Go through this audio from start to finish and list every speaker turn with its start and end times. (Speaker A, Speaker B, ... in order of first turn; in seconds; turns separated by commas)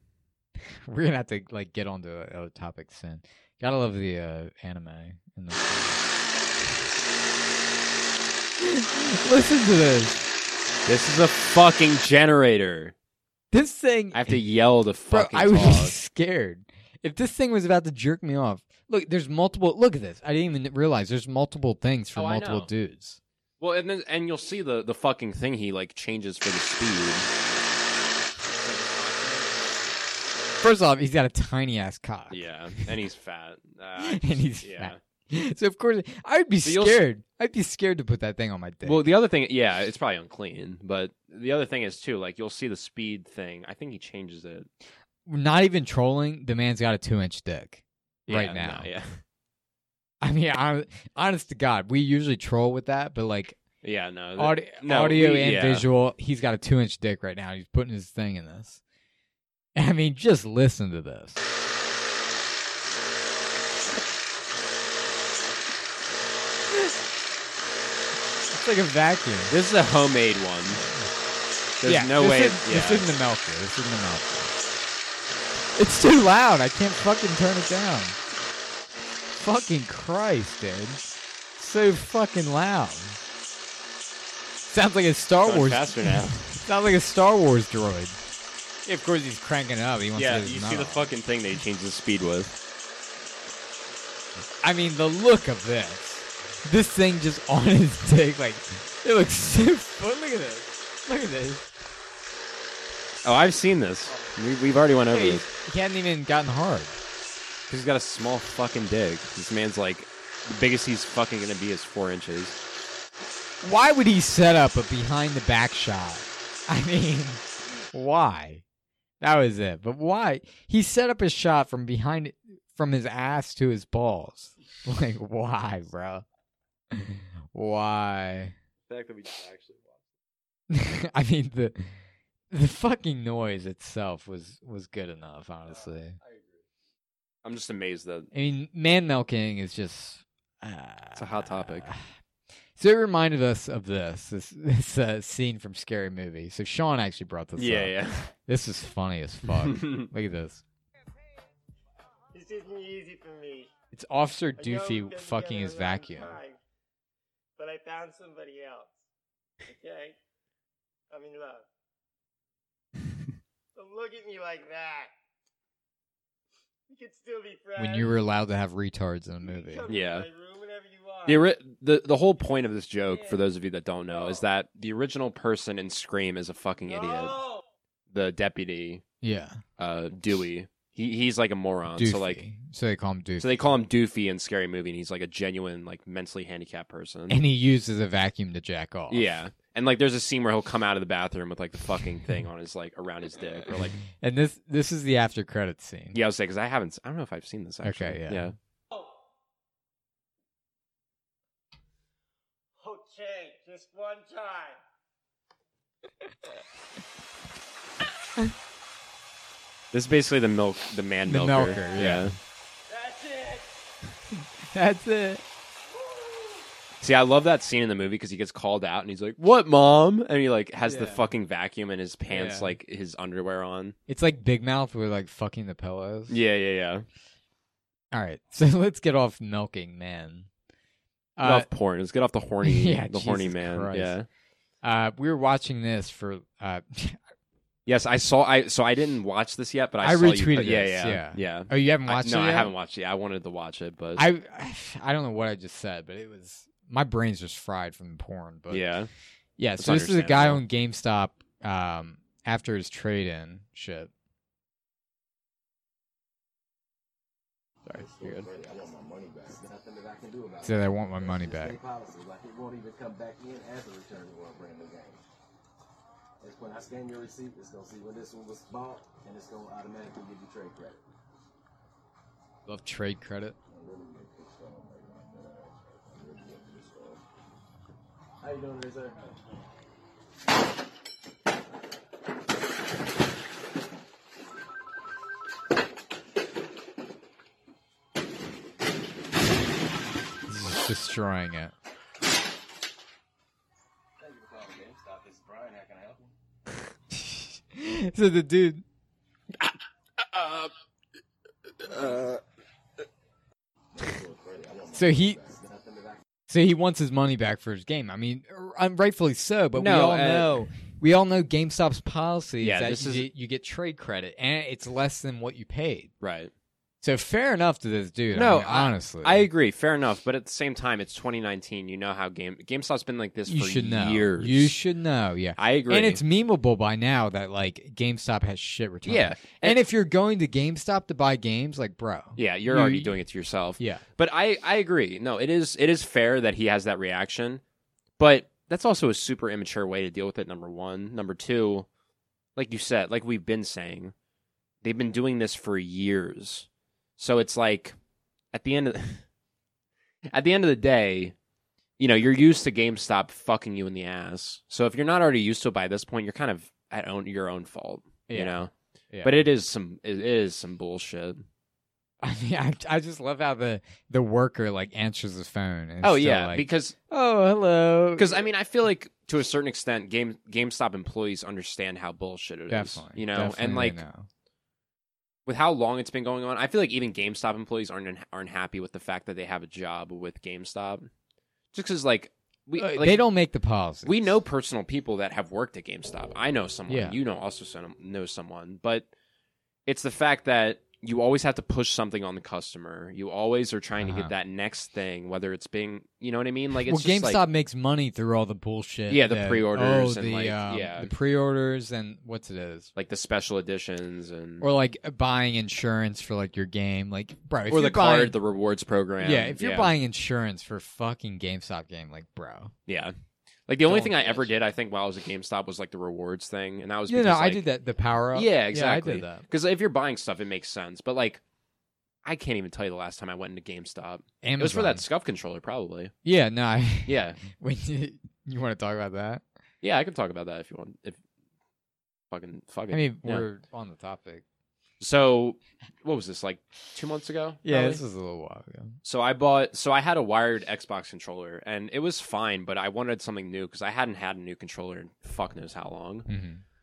Speaker A: 0.8-6.0, Speaker A: 8.6-10.3, Speaker B: 10.8-12.9, Speaker A: 13.5-14.4, Speaker B: 14.1-15.9, Speaker A: 15.1-23.2, Speaker B: 22.1-22.7, Speaker B: 23.6-27.3, Speaker B: 28.6-29.9, Speaker A: 30.6-32.9, Speaker B: 32.3-35.0, Speaker A: 34.0-39.1, Speaker B: 36.6-37.0, Speaker B: 38.8-44.7, Speaker A: 45.2-48.9, Speaker B: 48.3-49.2, Speaker A: 50.2-53.6, Speaker B: 53.8-55.9, Speaker A: 54.4-58.8, Speaker A: 59.8-61.4, Speaker A: 68.5-69.5, Speaker B: 69.5-70.8, Speaker B: 71.8-73.1, Speaker A: 71.8-74.5, Speaker A: 75.7-78.2, Speaker A: 79.4-83.2, Speaker A: 84.7-88.2, Speaker B: 85.4-86.5, Speaker A: 88.8-91.1, Speaker B: 90.1-92.5, Speaker A: 94.6-101.7, Speaker B: 103.2-105.4, Speaker A: 105.1-107.0, Speaker B: 107.7-112.6, Speaker A: 113.6-118.6, Speaker A: 119.2-126.2, Speaker A: 126.9-128.5, Speaker B: 128.9-130.0, Speaker A: 130.7-131.9, Speaker A: 132.5-136.2, Speaker B: 137.4-138.3, Speaker A: 138.3-142.0, Speaker B: 141.1-141.9, Speaker A: 142.8-150.6, Speaker B: 147.6-148.3, Speaker B: 149.5-150.1, Speaker C: 152.3-153.7, Speaker A: 153.9-156.4, Speaker C: 154.6-156.6, Speaker C: 157.6-159.0, Speaker C: 159.7-160.2, Speaker C: 161.1-161.7, Speaker C: 163.7-165.1, Speaker C: 166.9-168.1, Speaker A: 167.8-169.8, Speaker C: 169.4-171.5, Speaker B: 169.9-170.3, Speaker B: 171.2-177.4, Speaker C: 173.1-173.4, Speaker C: 174.1-174.4, Speaker C: 176.8-177.6, Speaker B: 178.1-179.0, Speaker A: 179.2-179.6, Speaker B: 179.8-182.4, Speaker A: 181.9-183.7, Speaker B: 183.4-187.4, Speaker A: 187.3-189.3, Speaker B: 189.1-194.0, Speaker A: 194.1-196.2, Speaker B: 196.1-198.5, Speaker A: 197.8-198.5, Speaker C: 202.8-204.8, Speaker B: 209.9-212.3, Speaker A: 211.3-212.3, Speaker C: 211.7-212.0, Speaker C: 212.9-213.7, Speaker A: 214.7-215.4, Speaker C: 216.0-216.6, Speaker B: 217.0-223.9, Speaker A: 220.8-221.2, Speaker A: 222.3-222.8, Speaker A: 224.1-226.4, Speaker B: 226.3-227.1, Speaker A: 228.1-230.5, Speaker A: 231.4-231.7, Speaker B: 231.4-234.3, Speaker A: 232.6-234.2, Speaker A: 234.8-237.2, Speaker B: 237.8-244.3, Speaker A: 240.0-242.7, Speaker A: 244.2-248.9, Speaker B: 248.7-249.1, Speaker A: 249.6-254.1, Speaker B: 249.8-250.6, Speaker B: 257.9-258.5, Speaker D: 257.9-265.2, Speaker A: 260.6-261.8, Speaker D: 266.4-271.0, Speaker A: 272.7-273.6, Speaker D: 273.7-277.2, Speaker D: 278.4-279.4, Speaker A: 290.5-291.7, Speaker D: 294.2-296.3, Speaker A: 297.1-298.8, Speaker D: 301.8-302.4, Speaker D: 304.0-306.2, Speaker A: 304.9-305.4, Speaker A: 306.5-316.1, Speaker B: 309.7-310.6, Speaker B: 312.6-313.3, Speaker B: 316.2-316.5, Speaker A: 317.0-319.5, Speaker B: 318.3-324.8, Speaker A: 323.5-333.2, Speaker B: 325.6-326.2, Speaker B: 329.1-329.8, Speaker B: 332.4-337.6, Speaker A: 333.8-334.0, Speaker B: 338.2-341.9, Speaker B: 342.6-344.1, Speaker B: 344.8-347.9, Speaker B: 348.5-349.2, Speaker B: 350.3-351.3, Speaker B: 352.0-358.7, Speaker A: 358.3-359.3, Speaker B: 359.2-361.4, Speaker A: 362.2-368.4, Speaker B: 366.0-366.9, Speaker B: 368.1-374.0, Speaker A: 372.7-374.3, Speaker B: 375.4-381.1, Speaker B: 381.7-383.2, Speaker A: 382.8-384.4, Speaker B: 384.0-389.1, Speaker A: 386.9-387.2, Speaker B: 389.9-397.4, Speaker A: 394.0-394.3, Speaker A: 396.9-402.9, Speaker B: 399.1-401.1, Speaker B: 402.9-404.6, Speaker A: 404.6-408.4, Speaker B: 407.7-409.9, Speaker A: 409.2-412.7, Speaker B: 412.9-413.1, Speaker B: 413.7-417.6, Speaker A: 413.8-414.5, Speaker A: 417.1-419.4, Speaker B: 418.3-421.4, Speaker B: 422.2-426.1, Speaker A: 424.4-425.0, Speaker A: 426.2-429.4, Speaker B: 427.1-427.4, Speaker B: 429.8-431.2, Speaker B: 432.3-433.5, Speaker A: 432.9-434.4, Speaker B: 435.0-438.0, Speaker A: 437.6-439.0, Speaker B: 439.0-446.3, Speaker A: 446.3-446.6